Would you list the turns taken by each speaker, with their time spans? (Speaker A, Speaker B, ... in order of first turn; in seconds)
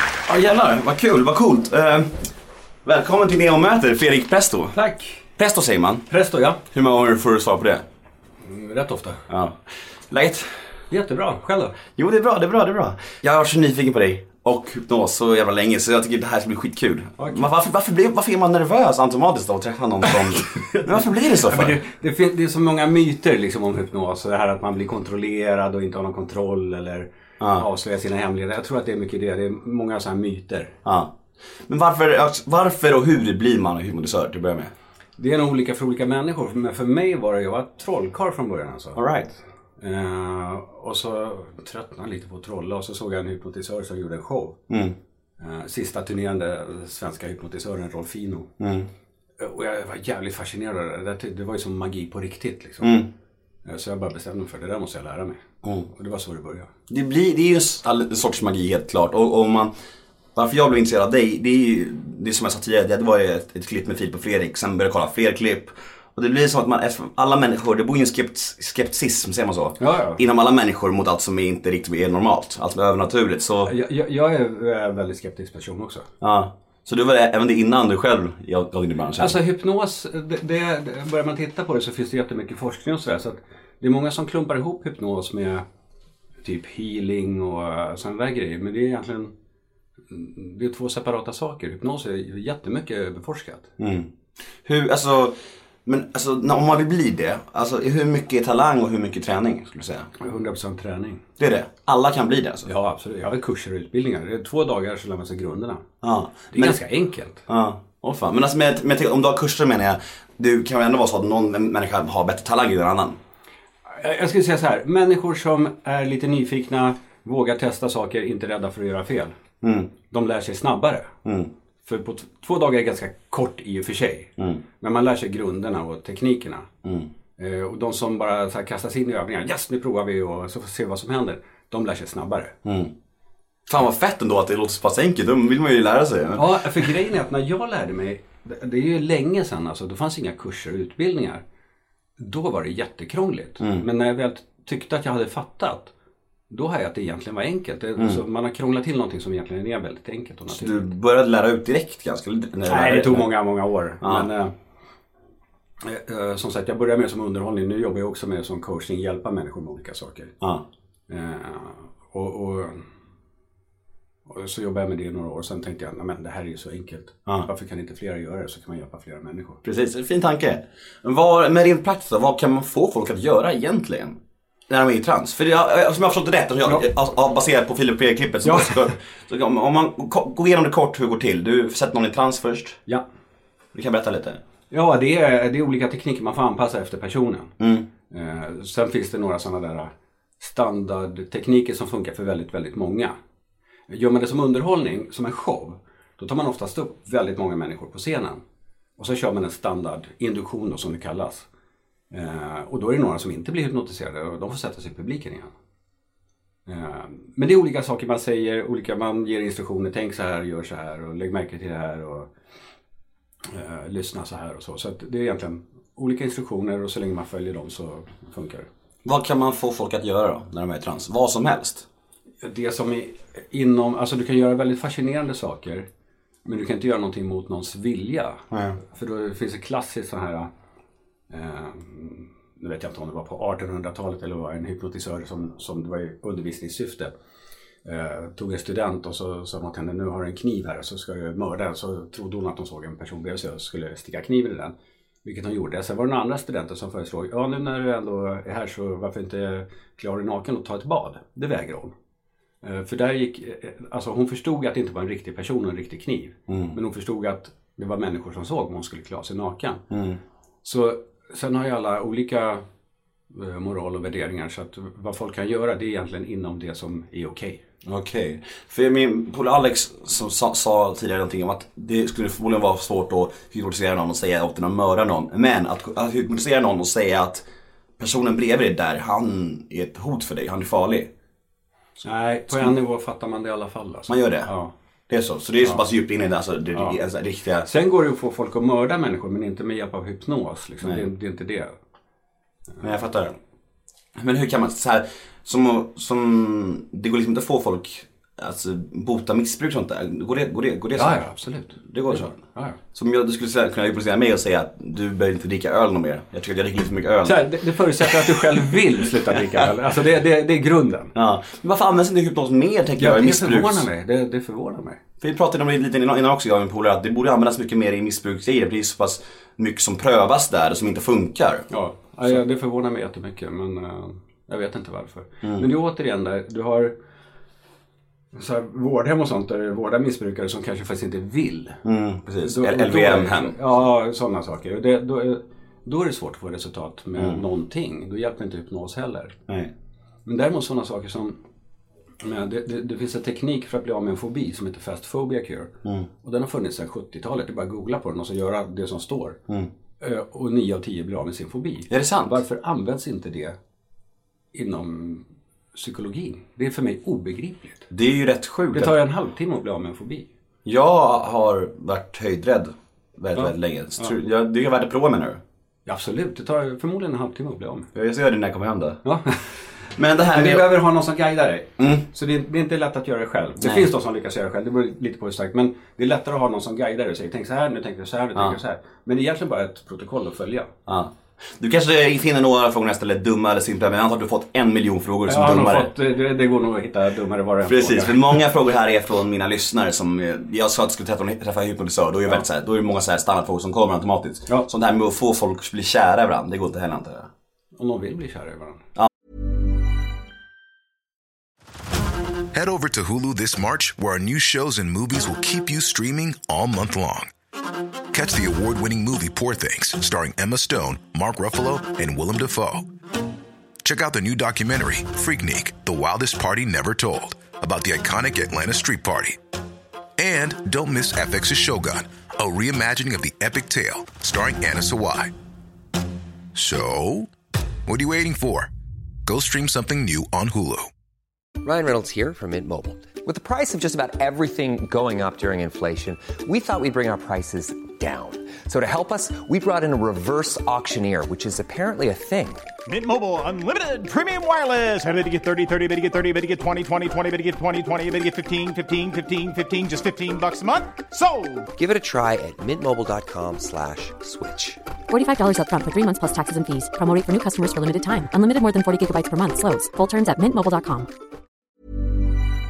Speaker A: 0.2-2.3, 2.8-4.8, 5.4-6.1, 6.7-7.8, 9.3-10.6, 12.0-21.8, 27.4-27.6, 30.8-31.1, 31.6-34.7, 39.0-39.3, 44.7-44.9, 48.6-48.9, 52.8-53.1, 56.9-59.7, 60.3-73.7, 76.2-79.4, 93.8-94.1, 94.6-100.1, 101.4-102.7, 106.0-106.8, 107.5-113.2, 119.6-119.9, 121.2-121.5, 126.8-127.1, 132.6-132.9, 133.7-136.9, 143.6-143.8, 150.5-153.3, 154.0-154.3, 169.6-182.8, 183.7-184.4, 187.6-187.9, 219.0-221.8, 228.5-228.8, 256.5-256.8, 259.9-260.2, 267.8-277.4, 278.0-281.1, 284.1-284.5, 285.1-287.7, 292.8-293.4, 294.1-301.3, 301.8-302.3, 302.9-308.8, 311.1-313.9, 315.2-321.7, 331.8-333.6, 337.1-337.4, 351.9-352.4, 357.9-359.0, 360.6-365.4, 367.9-369.0, 369.9-370.8, 371.8-372.1, 373.6-373.9, 380.9-385.9, 387.6-397.3
Speaker B: 4.7-5.2, 6.1-6.6, 8.4-9.2, 10.9-11.8, 17.2-17.4, 20.6-30.7, 35.2-39.0, 39.8-44.6, 45.4-48.5, 49.4-53.0, 53.6-56.7, 69.8-70.2, 73.6-76.1, 79.2-85.6, 86.4-89.3, 90.1-93.7, 100.2-101.2, 102.6-105.8, 106.5-107.4, 113.9-119.3, 120.1-121.1, 121.8-126.7, 127.4-132.5, 136.3-141.4, 142.2-145.9, 146.5-150.9, 152.6-154.5, 155.8-160.3, 161.1-162.8, 164.3-169.6, 178.4-178.9, 184.7-187.5, 188.1-193.2, 193.9-198.4, 199.0-201.5, 202.1-205.5, 206.7-212.3, 213.4-218.7, 222.4-225.9, 226.4-230.5, 231.3-237.1, 237.8-251.9, 252.6-259.8, 260.6-262.6, 263.3-267.6, 282.0-284.7, 287.6-291.8, 300.9-302.8, 307.2-311.1, 313.0-315.0, 321.7-326.9, 328.3-331.8, 332.4-339.4, 340.2-341.4, 342.2-349.4, 350.0-353.6, 354.5-357.9, 358.7-360.3, 363.3-364.1, 365.9-367.9, 369.0-369.4, 370.3-380.7, 385.3-388.4, 397.8-398.8
Speaker C: 402.5-407.3, 408.1-412.9, 413.8-419.4, 420.2-425.3, 426.5-427.3, 427.9-428.7, 429.2-430.9
Speaker D: 431.6-442.6, 451.7-454.8
Speaker E: 442.9-451.7
Speaker F: 455.1-461.1